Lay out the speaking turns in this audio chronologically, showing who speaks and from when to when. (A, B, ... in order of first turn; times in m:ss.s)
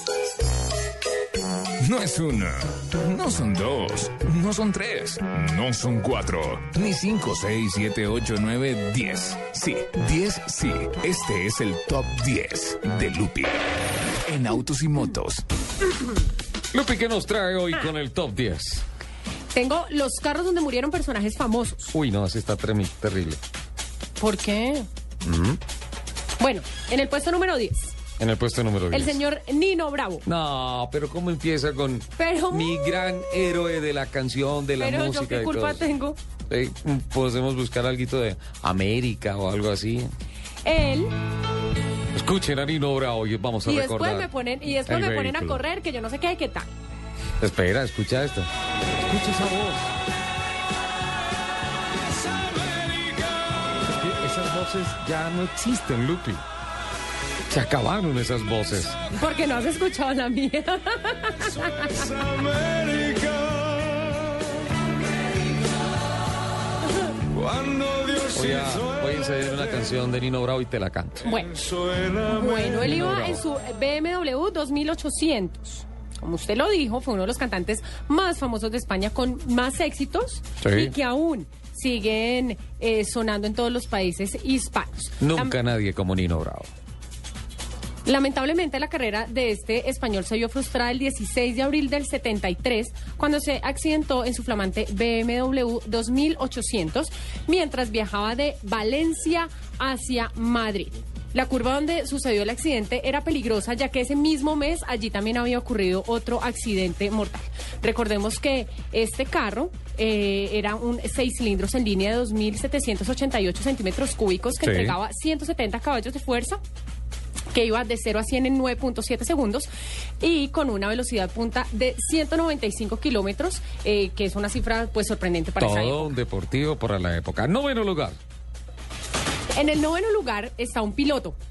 0:01.8-0:13.6 A
0:14.2-0:15.4 A
0:16.7-0:18.8 B
0:19.5-0:21.9 C
0:21.9-0:23.4 B
0:24.2-0:24.9 C
0:25.2-0:25.6 B
0:26.4-0:28.0 C
0:28.2-0:29.2 B
0:28.9-0:30.2 C
0:30.2-0:35.8 B
0:32.2-0:32.9 C
0:34.8-0:36.2 C
0:36.5-0:40.1 B
0:40.6-0:41.1 C
0:42.1-0:44.3 B
0:43.6-0:46.7 C
0:44.8-0:45.6 B
0:47.4-0:48.5 B
0:49.0-0:49.9 B
0:53.8-0:56.4 B
0:57.5-0:59.0 B
0:59.1-1:02.2 C
1:02.6-1:04.2 B
1:07.3-1:11.4 B
1:11.2-1:25.5 C
1:12.6-1:13.4 B
1:20.6-1:20.9 B
1:25.2-1:26.7 B
1:28.0-1:56.6 C
1:54.6-1:54.9 B
1:57.5-1:59.7 C
2:00.2-2:06.1 C
2:05.6-2:08.2 B
2:09.5-2:11.4 C